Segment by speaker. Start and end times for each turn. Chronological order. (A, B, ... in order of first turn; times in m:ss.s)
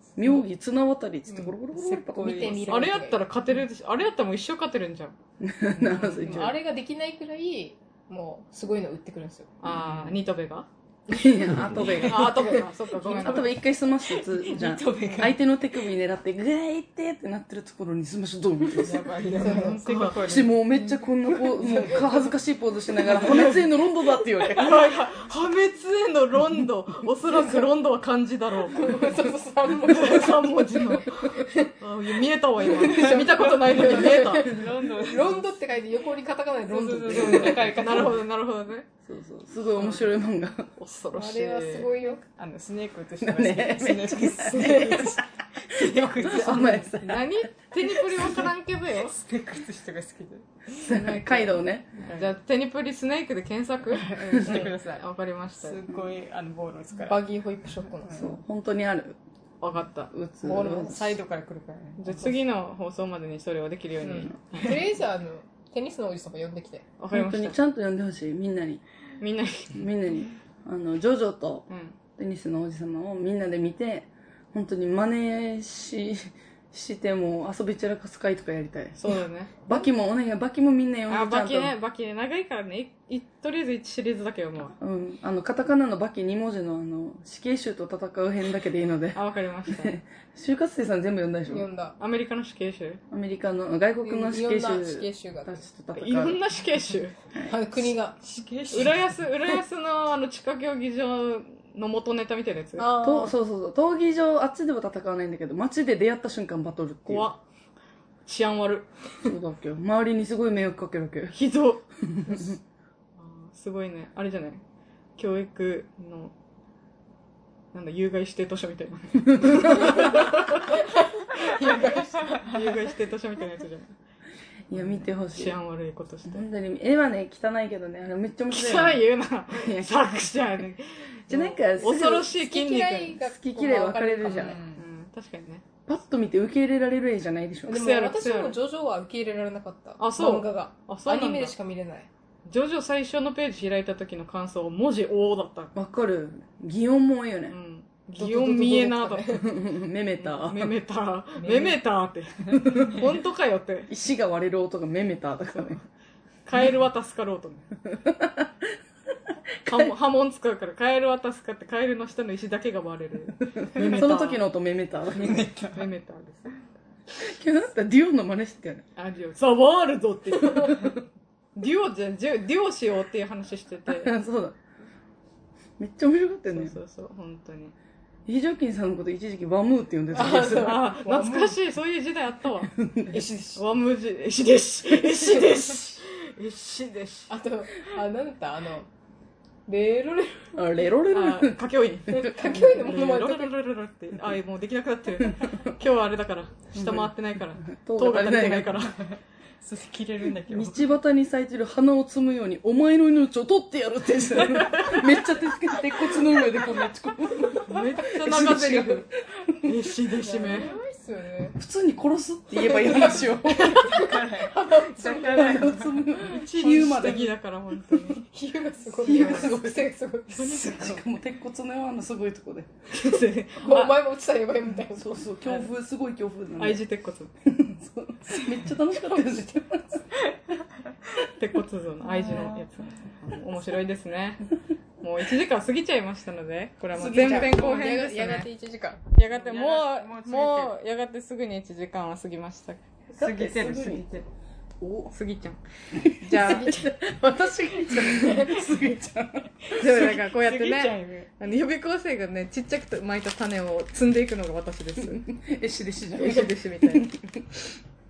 0:00.2-0:02.6 A
0:01.3-0:01.5 B
0:01.7-0:02.9 C
0:02.2-0:03.2 B
0:02.7-0:05.1 D
0:05.4-0:06.6 A
0:05.8-0:06.2 C
0:06.2-0:09.5 B
0:09.6-0:10.7 D
0:09.7-0:10.1 C
0:11.1-0:19.1 A
0:11.1-0:11.8 B
0:11.6-0:12.1 C
0:12.0-0:13.6 D
0:14.2-0:15.4 C
0:18.8-0:21.0 C
0:19.4-0:19.8 B
0:19.4-0:20.3 D
0:20.2-0:24.9 A
0:21.5-0:22.0 C
0:23.1-0:23.6 D
0:24.4-0:29.2 D
0:28.7-0:31.7 B
0:29.7-0:34.6 D
0:32.6-0:38.1 B
0:32.7-0:35.5 C
0:36.6-0:38.2 C
0:37.1-0:38.9 D
0:39.0-0:40.7 A
0:39.8-0:40.1 D
0:40.8-0:41.9 D
0:41.1-0:42.2 B
0:42.2-0:45.1 C
0:43.2-0:48.4 A
0:44.5-0:45.2 B
0:45.6-0:46.9 C
0:46.2-0:49.3 D
0:49.2-0:50.9 C
0:50.8-0:52.0 A
0:50.8-0:55.8 D
0:52.0-0:52.3 C
0:53.9-0:55.0 C
0:54.3-0:54.6 A
0:55.6-0:57.2 C
0:57.1-0:58.2 B
0:58.0-0:58.3 C
0:58.1-0:59.2 A
0:59.6-1:00.1 D
1:00.1-1:01.2 A
1:00.4-1:02.4 C
1:02.0-1:04.9 D
1:04.0-1:06.9 B
1:07.0-1:07.6 D
1:07.1-1:08.8 A
1:09.2-1:09.9 D
1:09.7-1:21.7 A
1:11.7-1:12.0 D
1:19.0-1:19.7 D
1:21.1-1:24.8 D
1:24.8-1:31.7 A
1:29.1-1:30.0 D
1:31.5-1:31.9 B
1:32.0-1:33.0 D
1:33.1-1:36.4 A
1:34.0-1:35.6 B
1:35.9-1:37.2 D
1:37.5-1:38.2 B
1:38.2-1:39.1 C
1:38.7-1:42.9 D
1:42.8-1:43.4 B
1:43.0-1:47.3 A
1:47.0-1:47.4 D
1:48.2-1:49.3 D
1:49.2-1:51.4 A
1:51.3-1:52.5 D
1:52.0-1:52.6 A
1:53.2-1:54.6 D
1:55.2-1:56.3 D
1:57.7-2:00.8 D
1:59.3-2:00.1 A
2:00.0-2:02.5 B
2:02.4-2:03.9 D
2:04.7-2:05.6 A
2:04.8-2:06.4 D
2:06.2-2:10.3 A
2:08.5-2:13.2 D
2:11.3-2:12.3 A
2:12.1-2:14.6 B
2:13.2-2:14.6 A
2:14.2-2:14.8 C
2:14.6-2:15.6 D
2:15.8-2:17.9 A
2:17.7-2:22.1 B
2:17.7-2:18.6 D
2:20.0-2:21.5 D
2:22.4-2:25.7 D
2:25.7-2:27.6 A
2:27.5-2:29.4 D
2:28.2-2:29.4 B
2:28.2-2:30.7 A
2:30.2-2:33.9 D
2:31.4-2:31.8 C
2:32.6-2:33.0 A
2:33.9-2:35.8 A
2:35.5-2:35.8 D
2:36.4-2:37.7 D
2:37.8-2:38.7 A
2:39.6-2:39.9 A
2:39.6-2:44.4 D
2:43.6-2:45.4 A
2:45.2-2:45.8 C
2:45.7-2:46.5 D
2:47.1-2:48.8 A
2:49.0-2:50.9 D
2:51.6-2:54.1 D
2:53.9-2:54.6 A
2:55.8-2:56.8 A
2:56.5-2:57.7 D
2:58.2-3:01.0 A
3:00.1-3:01.6 B
3:00.4-3:07.3 D
3:02.7-3:03.6 A
3:05.2-3:05.4 A
3:07.3-3:08.9 B
3:09.7-3:10.5 B
3:10.5-3:13.0 A
3:11.1-3:19.0 D
3:12.1-3:13.5 B
3:16.7-3:18.8 A
3:19.0-3:20.8 C
3:20.5-3:29.7 A
3:24.7-3:25.0 D
3:27.6-3:29.1 D
3:29.6-3:30.7 D
3:30.2-3:30.7 C
3:30.4-3:31.6 B
3:31.6-3:34.0 A
3:32.5-3:35.8 B
3:33.3-3:37.3 C
3:35.0-3:37.3 A
3:36.2-3:38.2 D
3:38.2-3:40.6 B
3:39.0-3:42.7 A
3:39.1-3:39.5 D
3:40.3-3:41.0 D
3:40.7-3:40.9 C
3:42.9-3:44.0 D
3:43.6-3:45.2 B
3:44.9-3:46.8 A
3:46.6-3:47.3 D
3:47.4-3:50.1 A
3:51.4-3:54.5 D
3:52.0-3:52.7 C
3:55.0-3:58.5 D
3:56.9-3:57.7 A
3:57.0-3:59.0 B
3:59.1-4:02.8 D
3:59.3-4:00.7 C
4:03.2-4:04.0 A
4:03.2-4:04.2 C
4:04.8-4:05.1 A
4:05.1-4:05.6 D
4:05.9-4:10.0 A
4:06.2-4:06.8 D
4:06.4-4:06.7 B
4:09.8-4:15.2 D
4:09.8-4:11.3 C
4:15.0-4:17.6 A
4:16.2-4:17.1 D